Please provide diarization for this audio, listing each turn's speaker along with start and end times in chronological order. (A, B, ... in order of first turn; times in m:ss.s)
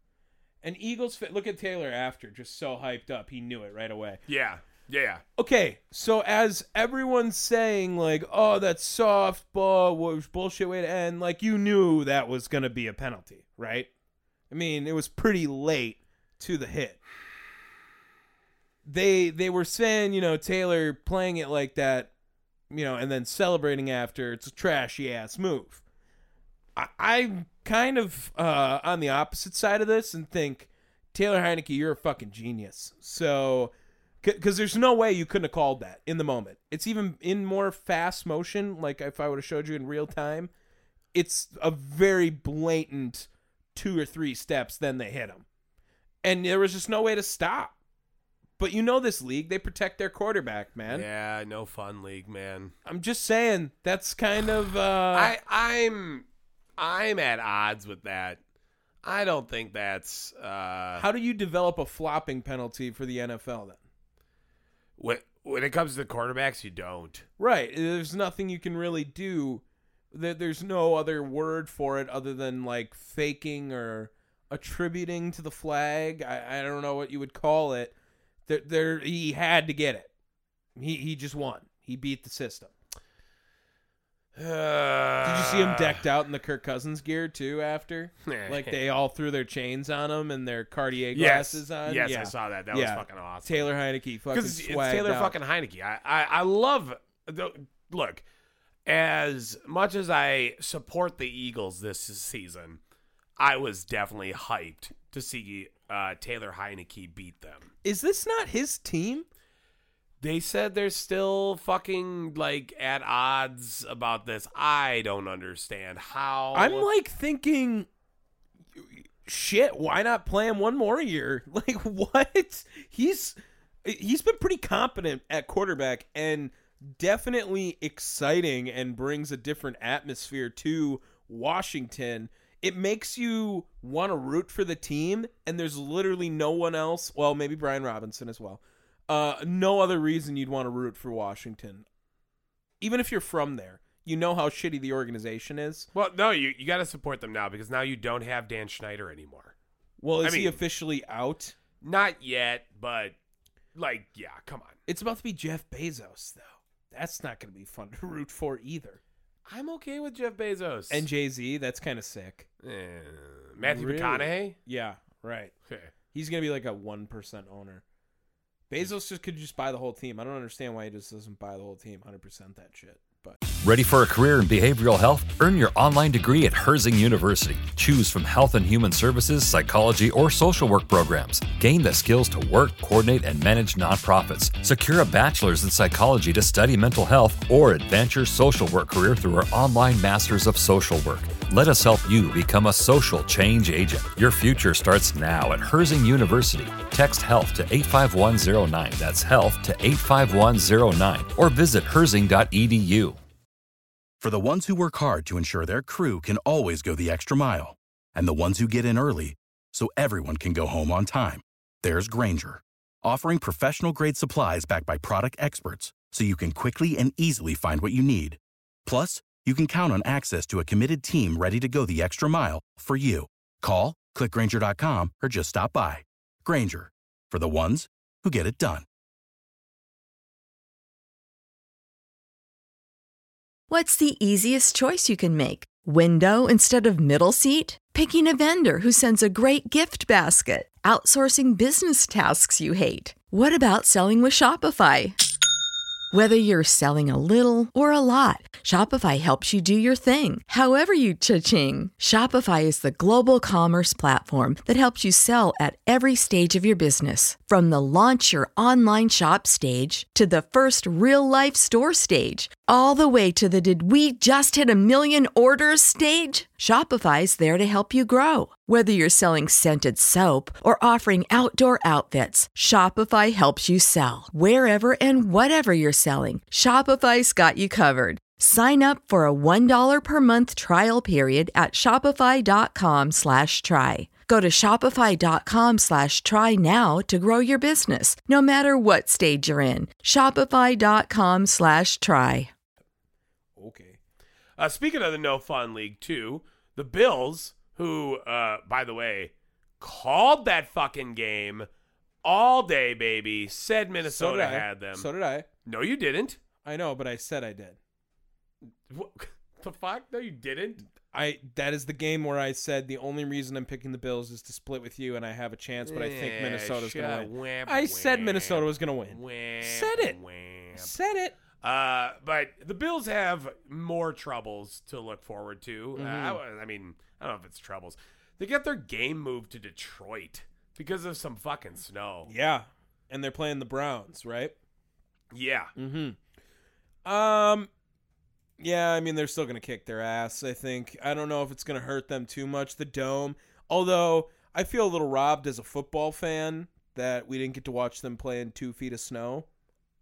0:00.6-0:04.2 A
0:04.3-0:05.2 B
0:05.4-0:13.9 A
0:14.5-0:17.0 A
0:18.8-0:22.1 A
0:22.7-0:25.8 A
0:26.8-0:40.5 A
0:41.1-0:45.4 A
0:46.2-0:47.7 A
0:48.6-0:51.1 A
0:50.9-0:52.7 B
0:52.9-0:55.3 A
0:55.1-0:56.3 B
0:56.8-0:58.4 B
0:59.0-1:01.1 B
1:01.0-1:03.8 A
1:05.0-1:07.3 B
1:07.4-1:17.9 A
1:18.5-1:20.1 A
1:20.8-1:22.7 A
1:24.4-1:26.0 B
1:25.2-1:35.3 A
1:28.3-1:28.8 B
1:31.1-1:33.7 B
1:34.3-1:38.2 B
1:38.9-1:42.8 B
1:43.4-1:47.7 B
1:47.8-1:49.3 A
1:50.2-1:56.9 B
1:56.5-1:57.9 A
1:58.8-2:21.8 A
2:22.8-2:25.9 A
2:25.9-2:29.5 B
2:30.0-2:31.6 A
2:30.2-2:30.6 B
2:31.8-2:33.2 B
2:33.8-2:34.8 B
2:34.9-2:39.0 A
2:39.5-2:41.1 B
2:40.9-2:42.5 A
2:42.6-2:44.6 B
2:43.6-2:45.5 A
2:46.1-2:47.8 A
2:48.7-2:53.4 A
2:53.6-3:23.2 C
3:24.2-3:48.9 D
3:53.7-4:05.2 E
4:06.1-4:52.5 E
4:53.6-4:54.0 A
4:54.6-5:01.7 B
5:02.2-5:05.1 B
5:04.0-5:05.5 A
5:05.6-5:06.4 B
5:06.6-5:07.8 A
5:08.9-5:10.9 B
5:11.1-5:20.2 A
5:15.8-5:20.9 B
5:20.8-5:21.4 A
5:21.6-5:32.3 B
5:26.0-5:26.4 A
5:32.3-5:34.6 A
5:35.3-5:35.7 B
5:35.8-5:36.2 A
5:37.0-5:37.7 A
5:38.6-5:49.5 A